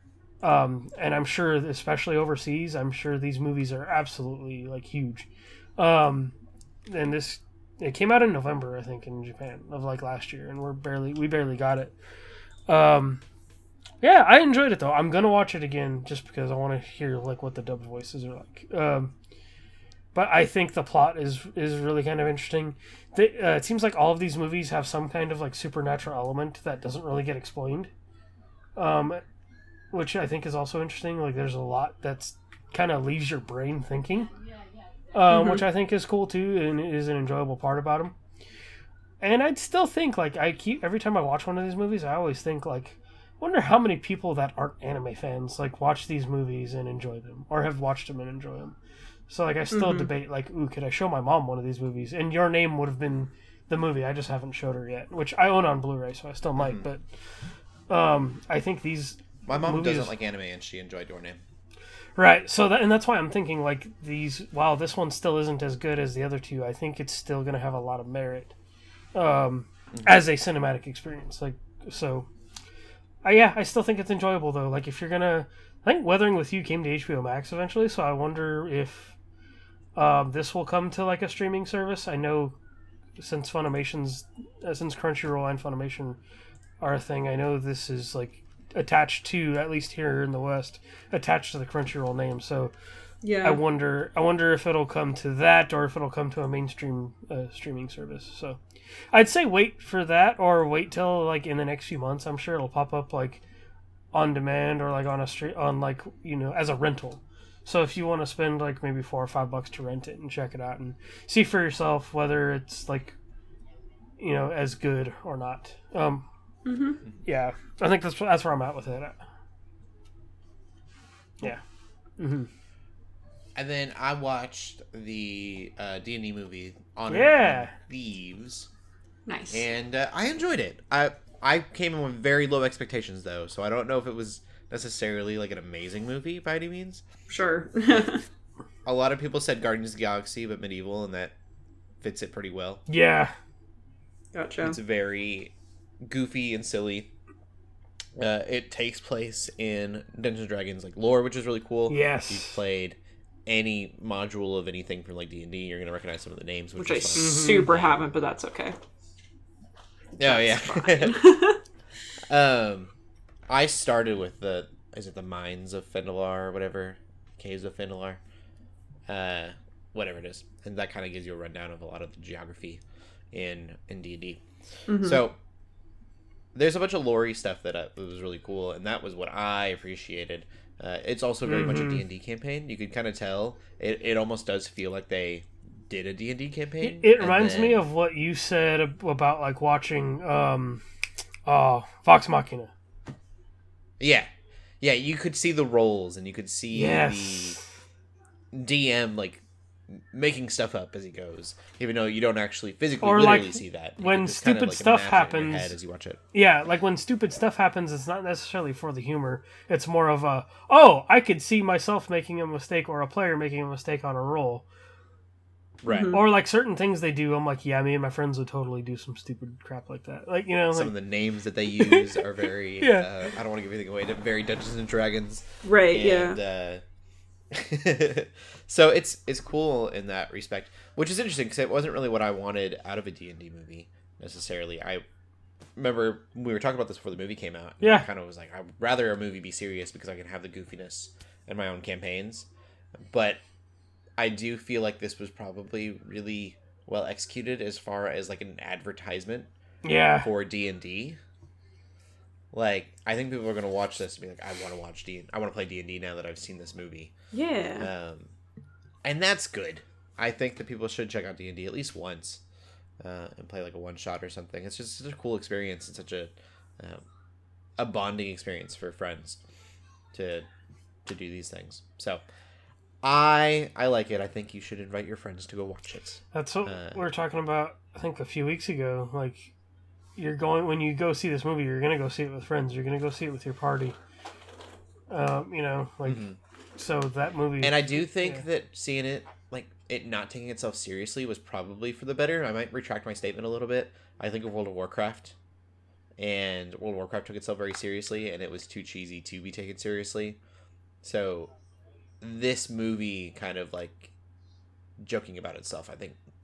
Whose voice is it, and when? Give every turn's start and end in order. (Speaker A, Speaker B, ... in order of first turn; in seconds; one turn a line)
Speaker A: 0.4-6.3
Speaker A: 6.9-12.0
Speaker A: 12.7-13.2
Speaker A: 14.0-19.1
Speaker A: 20.1-27.9
Speaker A: 28.8-29.2
Speaker A: 29.9-34.3
Speaker A: 35.1-38.1
Speaker B: 35.3-35.6
Speaker A: 39.2-48.8
Speaker A: 49.3-57.0
Speaker B: 49.7-50.1
Speaker C: 56.6-56.9
Speaker A: 57.9-60.1
Speaker C: 59.5-61.4
Speaker A: 62.2-68.5
Speaker A: 69.1-72.3
Speaker A: 73.2-79.2
Speaker A: 80.0-82.6
Speaker A: 83.2-86.2
Speaker A: 86.8-92.7
Speaker B: 93.2-93.6
Speaker A: 93.4-98.6
Speaker A: 99.1-103.4
Speaker A: 104.1-113.2
Speaker A: 114.2-116.3
Speaker B: 116.7-117.0
Speaker A: 117.3-119.2
Speaker A: 122.2-122.5
Speaker C: 123.5-128.7
Speaker A: 127.1-127.7
Speaker B: 129.3-129.7
Speaker C: 129.5-137.0
Speaker B: 137.3-138.2
Speaker C: 138.8-141.3
Speaker C: 142.0-142.8
Speaker A: 142.9-143.3
Speaker B: 144.3-144.8
Speaker C: 144.6-145.5
Speaker C: 146.0-147.1
Speaker C: 148.2-158.0
Speaker A: 151.9-152.6
Speaker B: 156.8-158.8
Speaker A: 157.2-157.7
Speaker C: 160.2-161.2
Speaker B: 160.2-161.6
Speaker C: 162.3-162.9
Speaker C: 163.5-168.2
Speaker C: 169.1-172.8
Speaker C: 173.3-174.4
Speaker B: 174.9-175.2
Speaker C: 175.0-175.4
Speaker C: 176.6-187.8
Speaker A: 181.5-182.0
Speaker A: 186.8-190.8
Speaker A: 191.5-192.7
Speaker C: 194.0-194.3
Speaker C: 194.8-197.6
Speaker A: 196.7-197.7
Speaker C: 198.5-206.2
Speaker A: 203.0-205.7
Speaker A: 206.3-214.7
Speaker C: 215.8-216.2
Speaker B: 215.9-216.2
Speaker A: 216.1-220.9
Speaker C: 220.7-226.8
Speaker A: 221.8-222.2
Speaker A: 222.8-223.1
Speaker B: 225.6-226.4
Speaker C: 227.5-235.0
Speaker C: 235.8-243.4
Speaker A: 237.8-238.1
Speaker C: 244.2-249.5
Speaker A: 249.8-250.3
Speaker C: 250.2-251.2
Speaker C: 252.5-257.1
Speaker B: 257.3-257.9
Speaker C: 257.8-258.3
Speaker C: 259.0-262.4
Speaker C: 263.0-267.0
Speaker C: 267.8-269.4
Speaker C: 270.1-270.5
Speaker C: 271.1-272.2
Speaker C: 273.0-277.0
Speaker A: 276.3-279.5
Speaker A: 280.2-284.0
Speaker A: 285.1-288.4
Speaker C: 286.1-286.4
Speaker C: 287.6-295.4
Speaker C: 296.2-300.4
Speaker C: 301.0-301.5
Speaker C: 302.2-304.1
Speaker C: 305.0-306.2